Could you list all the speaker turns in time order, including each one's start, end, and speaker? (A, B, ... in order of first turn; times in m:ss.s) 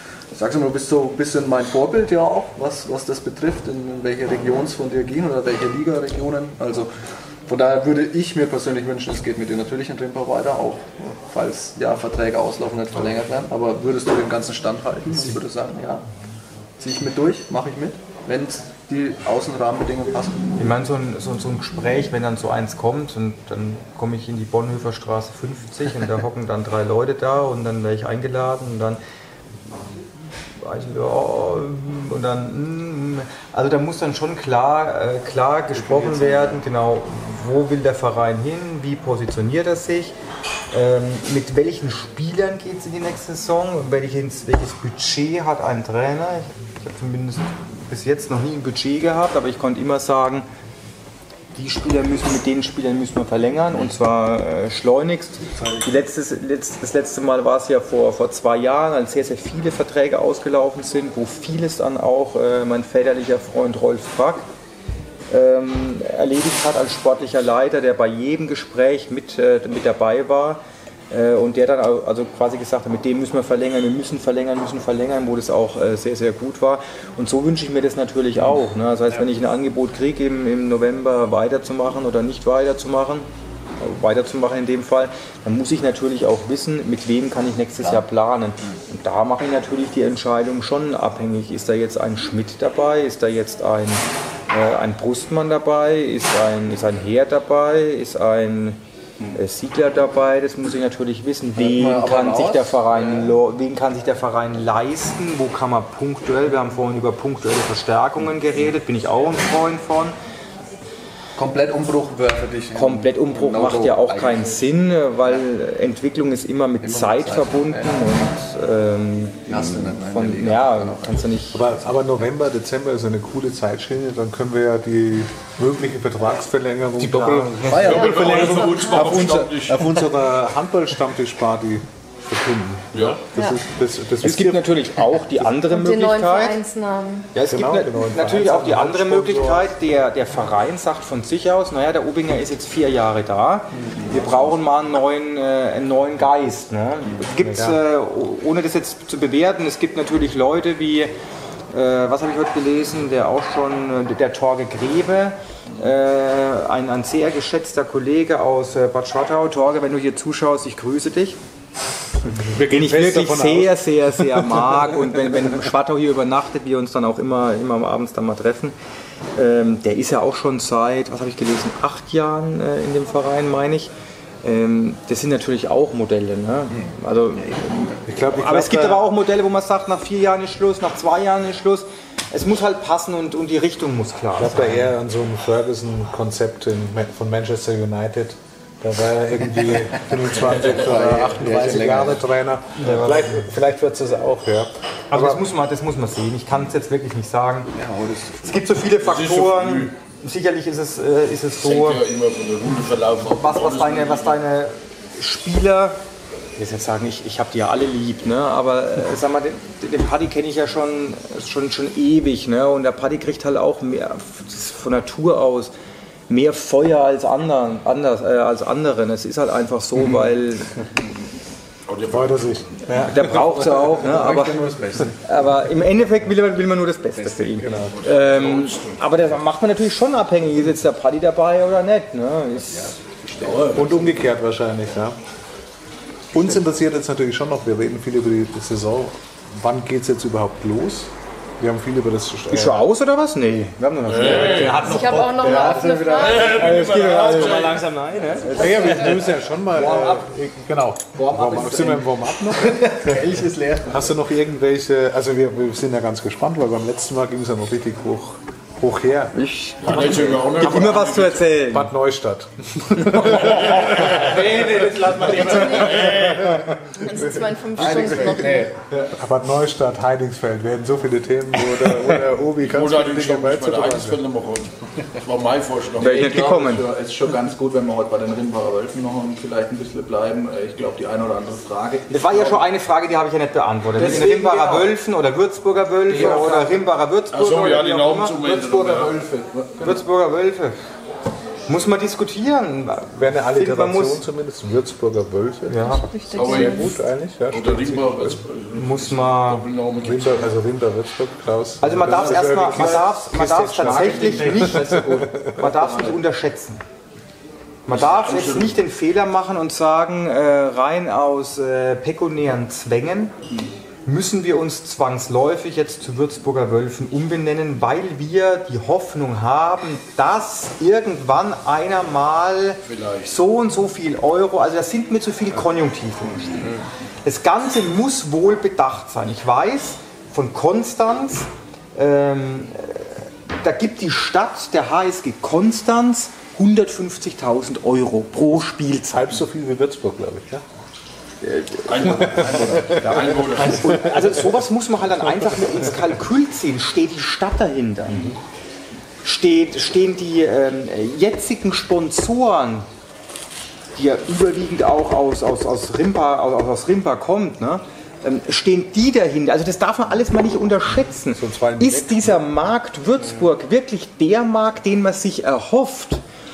0:00.3-0:16.0 A
0:16.8-0:20.7 A
0:20.6-0:29.0 B
0:30.6-0:40.2 B
0:35.7-0:36.6 A
0:40.7-0:50.4 B
0:51.5-1:04.4 B
1:05.3-1:10.6 B
1:11.1-1:23.3 B
1:23.8-1:38.8 B
1:39.3-1:50.1 B
1:41.6-1:43.3 A
1:51.4-1:54.6 A
1:52.7-2:01.6 B
1:56.8-1:58.1 A
1:59.5-2:01.2 A
2:01.5-2:14.8 C
2:07.0-2:08.2 D
2:07.6-2:08.6 A
2:07.7-2:10.0 E
2:07.9-2:09.2 F
2:12.9-2:13.2 E
2:13.3-2:13.6 F
2:14.2-2:16.6 B
2:15.6-2:17.3 F
2:17.3-2:31.1 B
2:17.4-2:19.8 C
2:27.5-2:27.8 C
2:31.7-2:41.4 B
2:42.3-2:45.1 C
2:42.7-2:48.7 B
2:49.4-2:53.9 B
2:54.4-3:04.9 B
2:56.7-2:58.0 A
2:58.0-2:59.1 C
3:04.4-3:15.4 C
3:09.7-3:12.2 A
3:10.4-3:10.8 E
3:12.8-3:13.4 B
3:15.1-3:17.7 B
3:17.7-3:18.5 A
3:18.4-3:22.0 B
3:19.0-3:19.9 E
3:21.6-3:24.4 E
3:23.2-3:26.0 B
3:26.6-3:35.7 B
3:36.3-3:40.7 B
3:41.9-3:43.1 E
3:42.1-3:42.6 C
3:43.0-3:44.6 B
3:43.4-3:45.2 A
3:45.2-3:52.8 B
3:47.1-3:47.6 A
3:47.6-3:48.0 C
3:47.9-3:49.4 E
3:52.7-3:54.1 A
3:53.4-3:54.0 E
3:53.7-3:55.2 C
3:56.3-4:02.8 C
4:02.5-4:05.1 B
4:04.0-4:05.5 E
4:04.2-4:05.9 G
4:04.8-4:06.8 F
4:05.5-4:06.4 A
4:06.1-4:07.9 E
4:06.5-4:07.6 C
4:06.6-4:07.8 B
4:07.2-4:08.7 D
4:08.4-4:09.0 B
4:08.5-4:13.0 C
4:09.7-4:10.2 G
4:11.1-4:12.2 G
4:12.6-4:14.1 A
4:13.9-4:19.4 C
4:19.3-4:21.9 B
4:19.8-4:21.6 E
4:21.7-4:27.4 C
4:23.2-4:24.3 E
4:23.5-4:26.2 G
4:25.4-4:26.0 F
4:25.7-4:26.6 E
4:27.0-4:28.7 F
4:27.8-4:28.7 A
4:28.9-4:34.2 C
4:32.6-4:36.5 E
4:36.0-4:36.9 B
4:36.0-4:42.6 G
4:42.1-4:49.1 B
4:43.9-4:44.9 G
4:46.1-4:46.8 G
4:47.3-4:49.7 E
4:48.6-4:49.8 G
4:49.8-4:50.8 B
4:51.7-4:54.2 B
4:53.1-4:58.4 C
4:55.7-4:56.0 B
4:55.8-4:57.0 F
4:56.3-4:56.9 E
4:57.5-5:00.5 E
4:58.7-4:59.6 B
5:00.0-5:05.7 C
5:01.8-5:06.8 B
5:02.5-5:02.9 G
5:03.8-5:05.1 G
5:05.8-5:06.1 G
5:07.8-5:13.3 B
5:07.9-5:08.8 E
5:14.0-5:26.7 B
5:22.8-5:23.4 E
5:27.2-5:39.4 B
5:39.1-5:40.6 C
5:41.4-5:48.3 B
5:41.9-5:44.2 E
5:42.3-5:44.2 C
5:49.2-5:52.9 B
5:54.0-6:06.2 B
6:01.3-6:02.4 C